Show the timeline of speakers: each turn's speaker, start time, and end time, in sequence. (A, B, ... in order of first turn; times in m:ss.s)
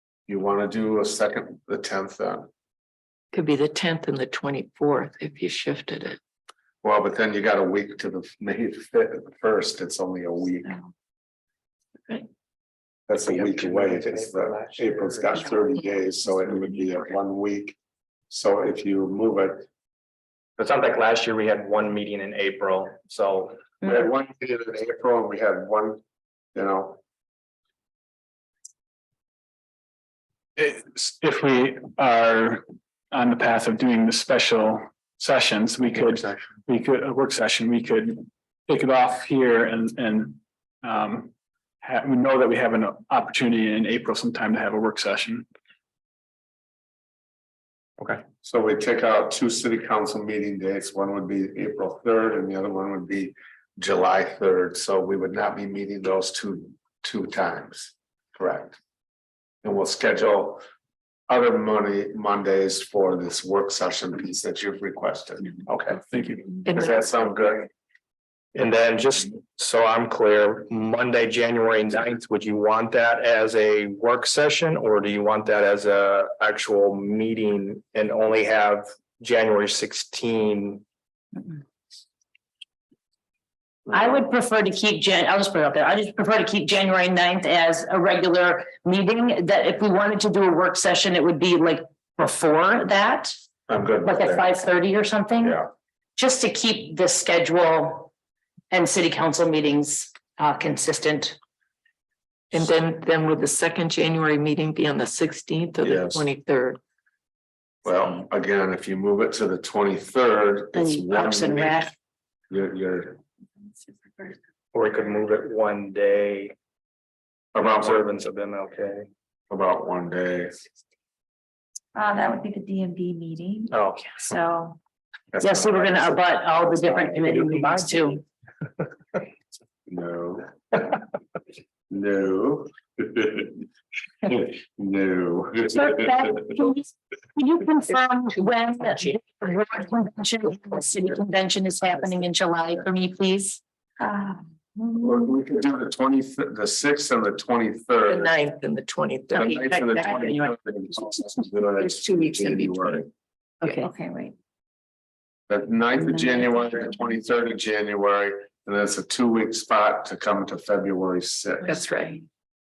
0:00.3-0:02.5 A
0:03.3-0:06.2 B
0:06.8-0:10.8 A
0:13.1-0:17.8 A
0:18.3-0:19.6 A
0:20.6-0:23.6 C
0:23.8-0:26.0 A
0:26.5-0:27.0 A
0:30.6-0:41.3 D
0:41.8-0:45.4 D
0:48.4-0:58.8 A
0:59.6-1:00.6 A
1:01.3-1:06.0 A
1:06.1-1:06.5 D
1:06.6-1:07.7 A
1:06.6-1:07.0 B
1:08.5-1:20.8 C
1:23.9-1:33.4 E
1:33.7-1:34.5 A
1:34.0-1:35.6 E
1:35.4-1:35.7 A
1:36.2-1:38.1 E
1:38.7-1:41.4 E
1:42.5-1:46.8 B
1:45.8-1:46.2 A
1:47.8-1:51.9 A
1:50.7-1:51.9 E
1:52.5-1:53.2 A
1:53.8-1:54.3 F
1:54.7-1:56.5 C
1:57.5-1:58.1 A
1:57.6-1:59.1 C
1:59.5-2:00.5 A
2:01.9-2:04.8 F
2:03.7-2:04.0 C
2:05.3-2:07.4 A
2:05.4-2:08.2 E
2:09.9-2:10.9 A
2:11.9-2:13.6 A
2:14.2-2:16.7 A
2:15.7-2:23.6 E
2:18.3-2:19.3 B
2:20.6-2:21.0 B
2:24.0-2:25.3 F
2:25.0-2:28.3 A
2:28.1-2:33.0 B
2:29.3-2:33.1 A
2:33.6-2:33.9 B
2:33.6-2:34.3 F
2:35.5-2:41.8 A
2:41.6-2:42.2 B